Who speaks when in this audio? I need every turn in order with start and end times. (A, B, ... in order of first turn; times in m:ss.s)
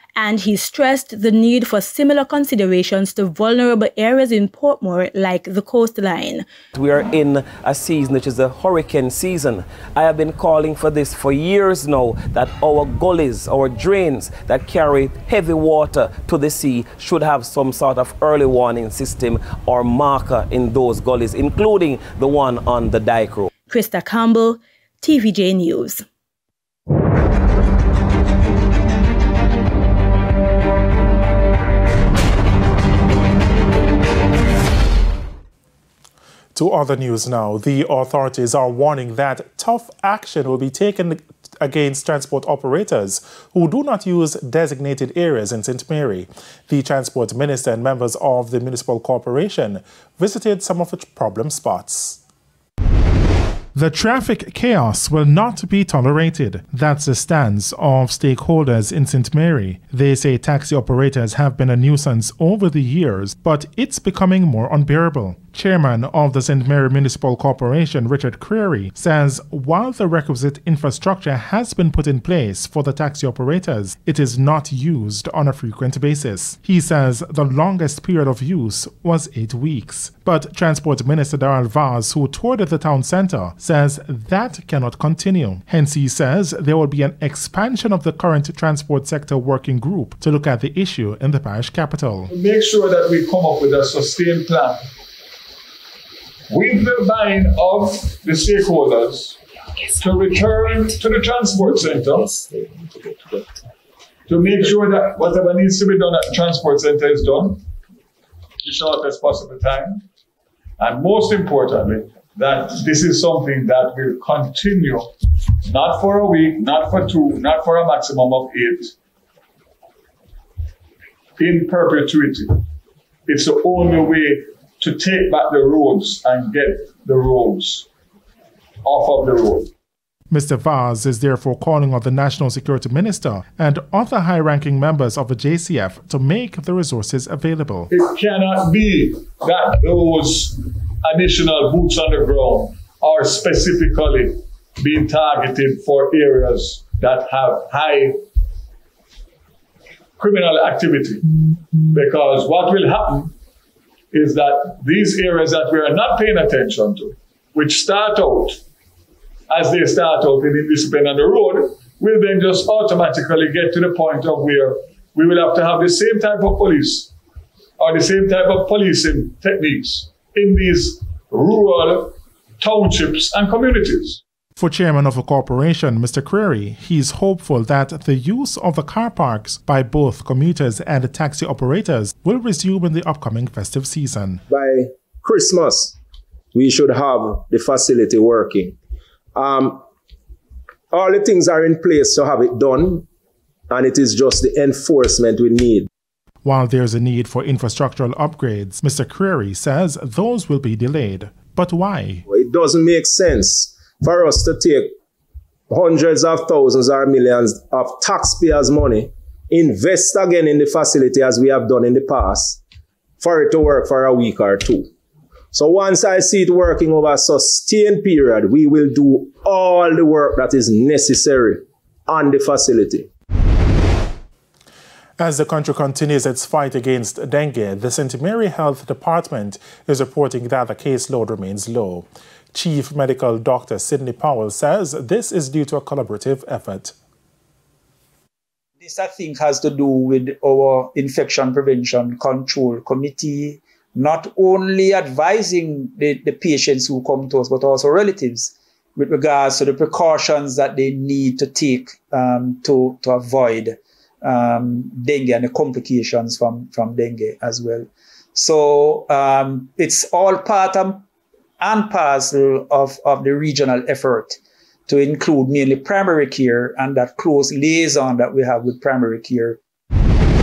0:00.2-0:06.4 A
0:06.7-0:23.5 B
0:23.7-0:26.0 A
0:36.5-0:52.2 C
0:53.7-1:32.3 C
1:32.3-1:34.8 D
1:36.5-1:39.4 D
1:40.0-1:42.4 D
1:44.3-1:47.6 D
1:48.6-1:50.0 D
1:50.8-1:55.1 D
1:55.6-1:58.9 D
2:01.4-2:02.6 D
2:03.3-2:07.9 D
2:08.8-2:09.7 D
2:10.3-2:17.9 C
2:17.9-2:28.2 D
2:30.2-2:31.2 D
2:31.9-2:33.3 D
2:34.1-2:38.6 D
2:39.5-2:47.1 D
2:47.8-2:54.2 D
2:54.6-3:04.4 C
3:04.5-3:06.0 E
3:06.5-3:08.8 E
3:09.3-3:09.8 E
3:10.9-3:13.0 E
3:13.7-3:15.9 E
3:16.4-3:22.2 C
3:22.3-3:24.9 E
3:25.7-3:32.6 E
3:33.2-3:34.9 E
3:35.5-3:43.1 E
3:45.2-3:56.9 C
3:58.8-4:21.0 F
4:21.6-4:29.6 F